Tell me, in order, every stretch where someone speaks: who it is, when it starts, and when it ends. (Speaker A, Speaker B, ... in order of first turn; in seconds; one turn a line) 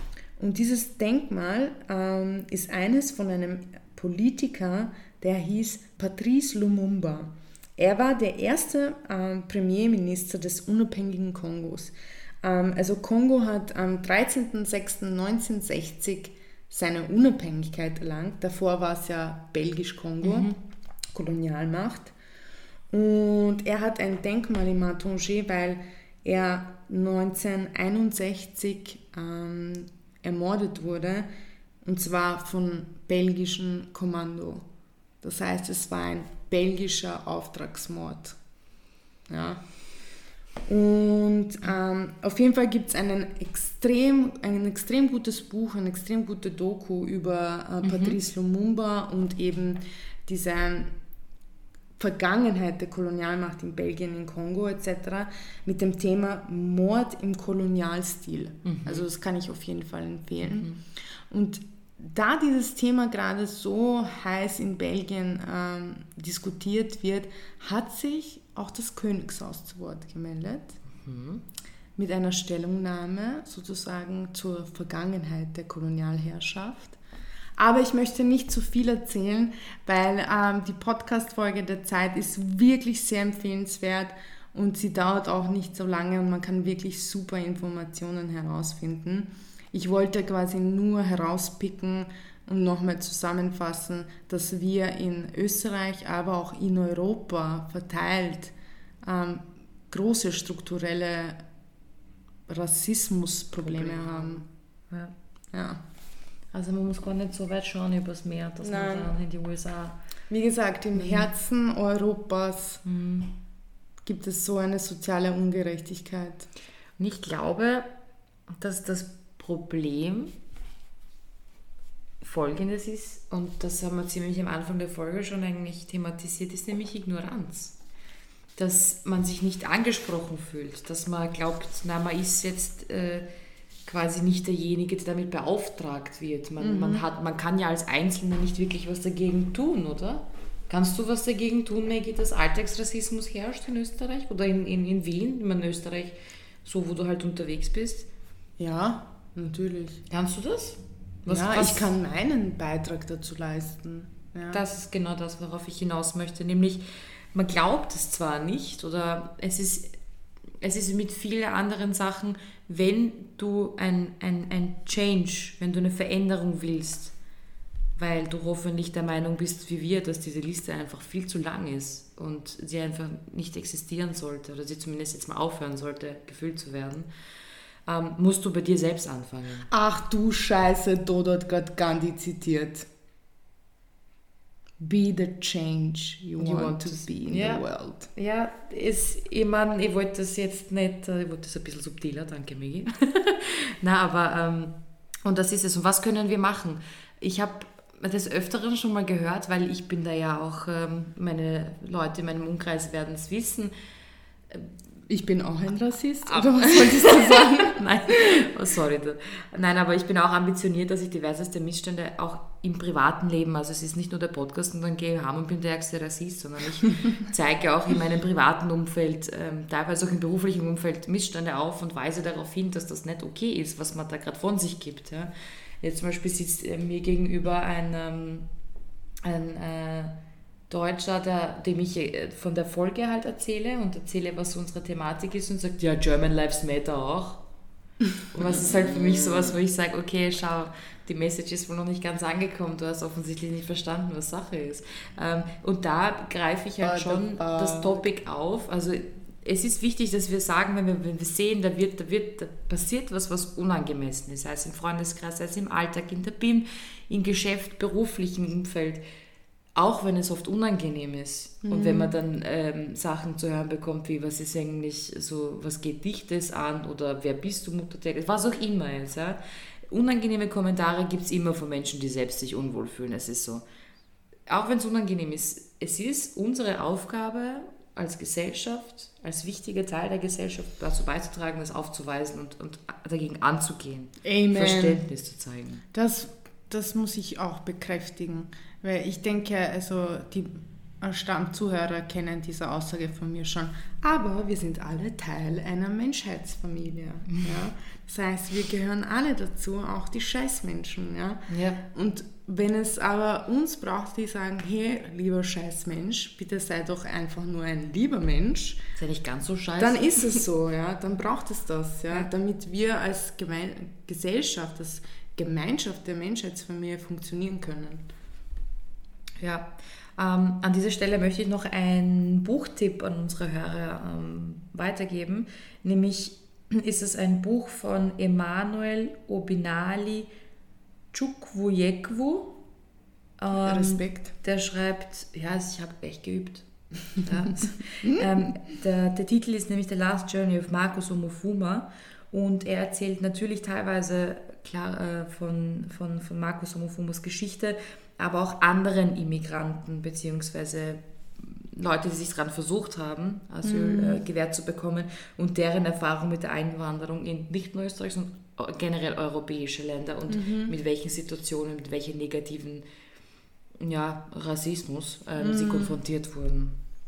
Speaker A: 0.4-20.5
Speaker B: 20.2-20.6
Speaker A: 21.1-22.1
Speaker A: 22.9-31.3
Speaker A: 31.8-34.6
Speaker A: 35.2-38.4
Speaker A: 39.3-39.6
Speaker A: 40.6-50.9
Speaker B: 47.8-48.2
Speaker A: 52.0-60.7
Speaker B: 58.6-59.0
Speaker B: 60.4-60.8
Speaker A: 61.3-70.8
Speaker B: 70.9-71.4
Speaker A: 72.0-77.0
Speaker A: 77.6-101.4
Speaker A: 102.5-104.4
Speaker B: 103.6-105.1
Speaker A: 105.5-105.8
Speaker B: 106.5-110.0
Speaker A: 108.6-109.1
Speaker A: 110.3-112.8
Speaker B: 110.9-111.3
Speaker B: 112.8-113.3
Speaker A: 114.0-116.5
Speaker B: 117.0-117.9
Speaker B: 118.6-120.3
Speaker B: 122.2-127.7
Speaker B: 128.6-133.3
Speaker B: 133.8-148.1
Speaker A: 136.6-137.0
Speaker A: 148.6-150.0
Speaker B: 150.1-151.9
Speaker A: 151.3-154.6
Speaker B: 154.5-159.9
Speaker B: 160.6-167.1
Speaker B: 167.9-177.1
Speaker B: 177.8-179.7
Speaker A: 179.7-182.9
Speaker A: 184.8-188.1
Speaker B: 186.4-203.7
Speaker A: 205.1-207.8
Speaker B: 206.2-228.5
Speaker B: 229.2-230.1
Speaker B: 230.7-237.4
Speaker B: 238.3-259.0
Speaker A: 246.8-248.0
Speaker B: 259.7-273.6
Speaker A: 261.6-262.1
Speaker B: 274.5-285.8
Speaker A: 284.2-285.0
Speaker A: 285.9-308.8
Speaker B: 301.5-301.8
Speaker B: 308.9-310.4
Speaker A: 309.8-318.1
Speaker B: 319.4-330.3
Speaker B: 331.1-332.6
Speaker B: 333.4-362.8
Speaker A: 333.6-334.3
Speaker A: 353.6-354.2
Speaker A: 360.3-360.7
Speaker B: 363.8-366.8
Speaker A: 365.4-365.9